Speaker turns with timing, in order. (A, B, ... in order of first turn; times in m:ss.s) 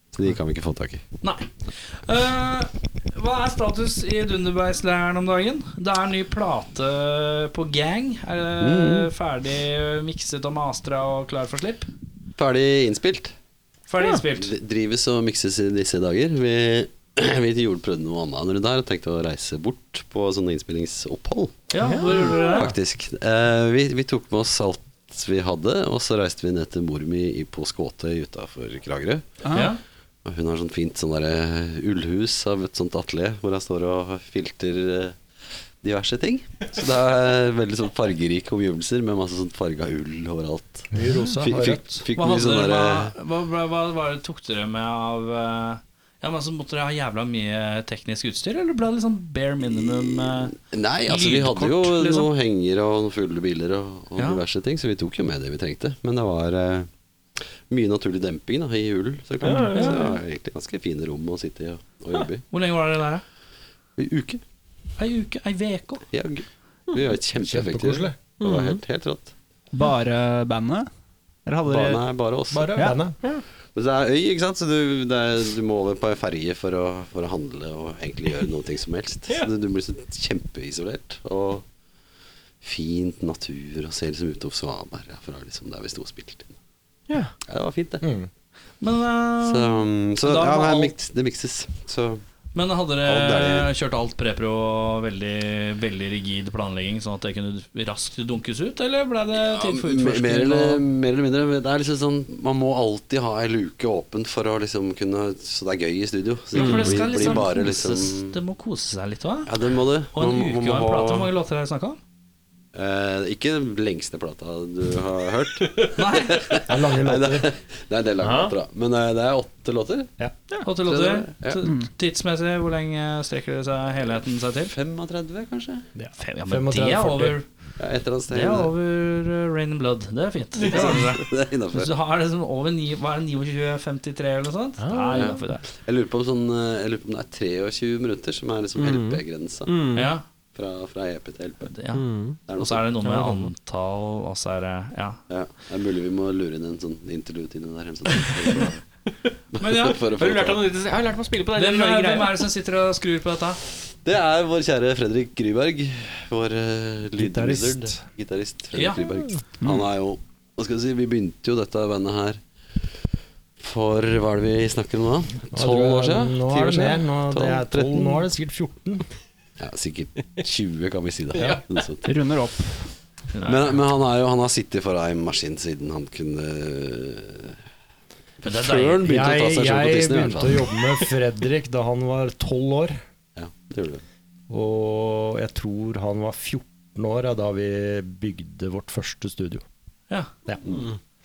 0:00.1-0:01.0 A
0:01.2-0:11.9 B
0:08.6-0:09.1 A
0:12.4-0:13.3 A
0:13.9-0:14.5 B
0:14.3-0:29.3 A
0:21.7-0:22.7 B
0:21.8-0:22.3 C
0:29.4-0:29.7 D
0:29.5-0:29.8 B
0:30.2-0:35.2 A
0:35.8-0:43.1 A
0:40.9-0:42.0 E
0:42.2-0:52.3 B
0:49.7-0:56.9 A
0:54.2-0:54.4 B
0:57.7-1:02.4 A
0:59.4-1:00.1 C
0:59.7-1:00.2 B
1:02.5-1:03.2 B
1:04.0-1:04.4 A
1:05.0-1:06.0 B
1:06.1-1:09.3 A
1:07.4-1:08.3 E
1:08.4-1:08.8 C
1:09.7-1:10.9 D
1:11.5-1:12.0 D
1:11.7-1:12.9 A
1:12.5-1:13.2 E
1:13.8-1:21.6 A
1:22.6-1:26.5 A
1:27.1-1:27.3 C
1:27.5-1:28.0 A
1:28.0-1:28.3 E
1:28.8-1:30.9 B
1:29.4-1:32.2 A
1:32.5-1:40.8 B
1:33.0-1:33.7 A
1:39.4-1:48.4 A
1:46.5-1:49.5 B
1:46.6-1:47.0 C
1:49.5-1:51.3 A
1:50.1-1:52.0 B
1:52.7-2:00.1 A
1:56.0-1:56.4 B
1:56.7-1:57.5 E
1:58.2-1:58.5 C
2:00.6-2:04.7 B
2:00.8-2:01.6 A
2:04.6-2:05.9 A
2:06.0-2:07.4 E
2:06.2-2:07.5 B
2:07.8-2:08.7 A
2:08.3-2:15.6 B
2:10.7-2:11.9 A
2:14.8-2:15.4 C
2:15.1-2:19.7 A
2:18.8-2:20.1 C
2:19.9-2:20.2 B
2:20.5-2:21.7 A
2:21.7-2:25.2 B
2:21.9-2:22.4 C
2:22.5-2:22.8 A
2:23.0-2:23.5 C
2:25.3-2:28.8 A
2:29.5-2:30.6 A
2:29.6-2:30.0 B
2:30.2-2:32.4 C
2:31.6-2:33.6 B
2:34.0-2:42.4 A
2:37.2-2:38.0 E
2:38.7-2:39.0 B
2:39.6-2:39.9 D
2:43.6-2:48.3 A
2:45.5-2:49.1 E
2:49.6-2:52.1 A
2:52.0-2:52.9 D
2:53.3-2:53.8 B
2:53.5-2:57.6 A
2:58.4-3:01.0 A
2:58.4-2:59.0 B
2:59.0-3:03.0 E
3:03.4-3:04.0 A
3:04.5-3:09.6 E